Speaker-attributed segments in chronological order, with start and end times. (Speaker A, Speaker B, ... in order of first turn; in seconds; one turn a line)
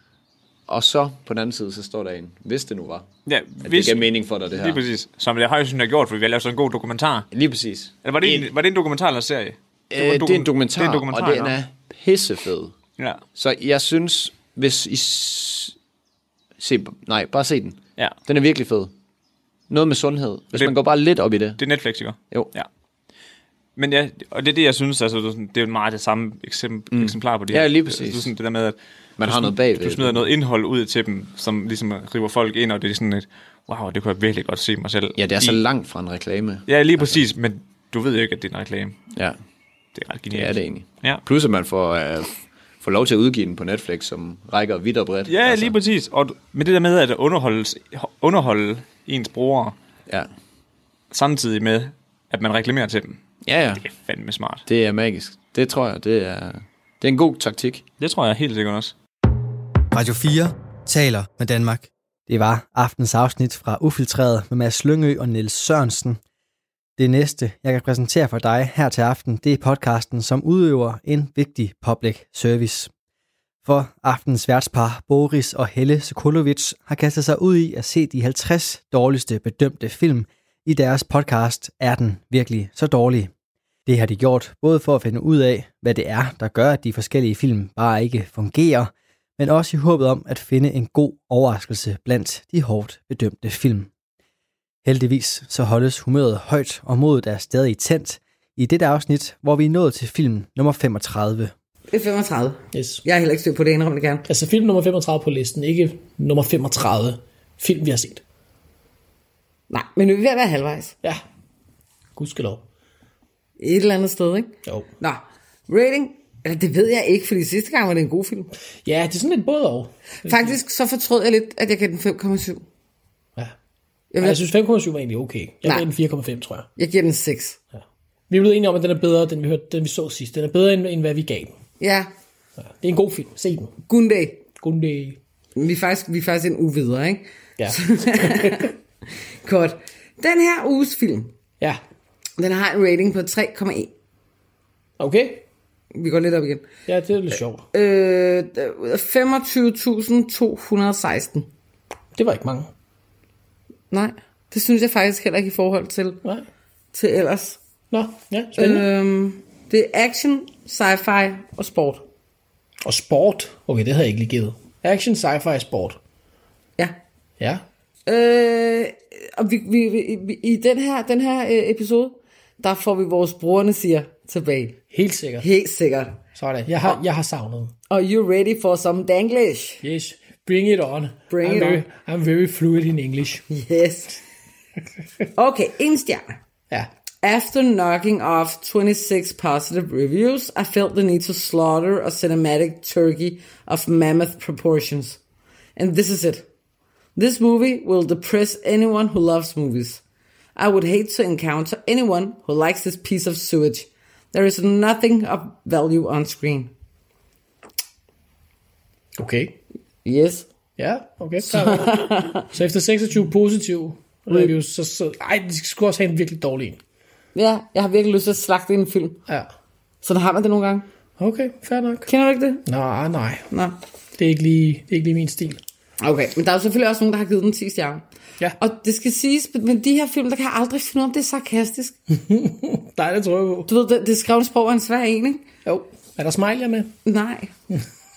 Speaker A: 0.7-3.1
Speaker B: 3.3-7.3
Speaker A: 3.6-4.8
Speaker A: 7.3-8.5
Speaker B: 8.0-11.5
Speaker A: 9.9-12.7
Speaker A: 13.4-15.8
Speaker A: 16.6-18.9
Speaker A: 19.7-21.6
Speaker B: 21.6-22.7
Speaker B: 23.8-35.6
Speaker A: 26.9-28.3
Speaker A: 29.2-30.3
Speaker A: 35.2-37.2
Speaker B: 36.7-39.0
Speaker B: 40.0-41.2
Speaker A: 40.3-45.7
Speaker B: 45.3-49.8
Speaker B: 51.1-53.2
Speaker A: 53.5-53.8
Speaker B: 53.8-54.6
Speaker A: 54.7-57.8
Speaker B: 58.0-59.0
Speaker C: 59.9-66.2
Speaker C: 67.0-72.9
Speaker C: 73.6-83.3
Speaker C: 83.9-93.9
Speaker C: 94.8-101.5
Speaker D: 101.9-104.2
Speaker E: 102.7-103.0
Speaker E: 104.3-108.2
Speaker D: 109.7-110.9
Speaker E: 112.2-112.6
Speaker D: 113.6-118.5
Speaker E: 118.8-120.6
Speaker D: 120.2-122.6
Speaker D: 124.1-124.4
Speaker E: 124.2-126.7
Speaker D: 126.8-127.6
Speaker E: 128.3-131.5
Speaker D: 131.8-132.1
Speaker E: 132.8-133.7
Speaker D: 133.9-134.4
Speaker E: 134.5-135.2
Speaker D: 135.6-138.7
Speaker E: 137.6-138.7
Speaker D: 139.4-141.4
Speaker D: 142.4-143.9
Speaker E: 145.0-145.4
Speaker D: 145.9-146.7
Speaker E: 146.9-147.6
Speaker D: 147.7-151.5
Speaker E: 152.2-152.7
Speaker D: 153.9-156.2
Speaker D: 156.9-157.6
Speaker E: 157.9-158.9
Speaker D: 158.6-162.1
Speaker E: 162.8-166.0
Speaker D: 168.1-174.8
Speaker E: 174.9-175.5
Speaker D: 175.4-176.2
Speaker E: 176.3-177.7
Speaker D: 177.9-179.8
Speaker E: 179.8-183.4
Speaker D: 181.3-181.8
Speaker D: 183.5-184.2
Speaker D: 185.3-186.4
Speaker D: 187.2-195.2
Speaker D: 195.8-196.5
Speaker D: 197.2-200.0
Speaker D: 200.6-206.7
Speaker E: 209.2-209.6
Speaker D: 210.1-210.5
Speaker E: 210.8-216.8
Speaker D: 211.4-212.4
Speaker D: 217.3-219.2
Speaker D: 220.0-220.9
Speaker E: 221.2-222.1
Speaker D: 222.1-222.6
Speaker E: 222.7-223.5
Speaker E: 224.2-225.6
Speaker D: 226.0-228.1
Speaker D: 228.6-232.0
Speaker E: 232.1-233.7
Speaker D: 233.7-235.5
Speaker E: 235.7-236.9
Speaker D: 237.1-237.5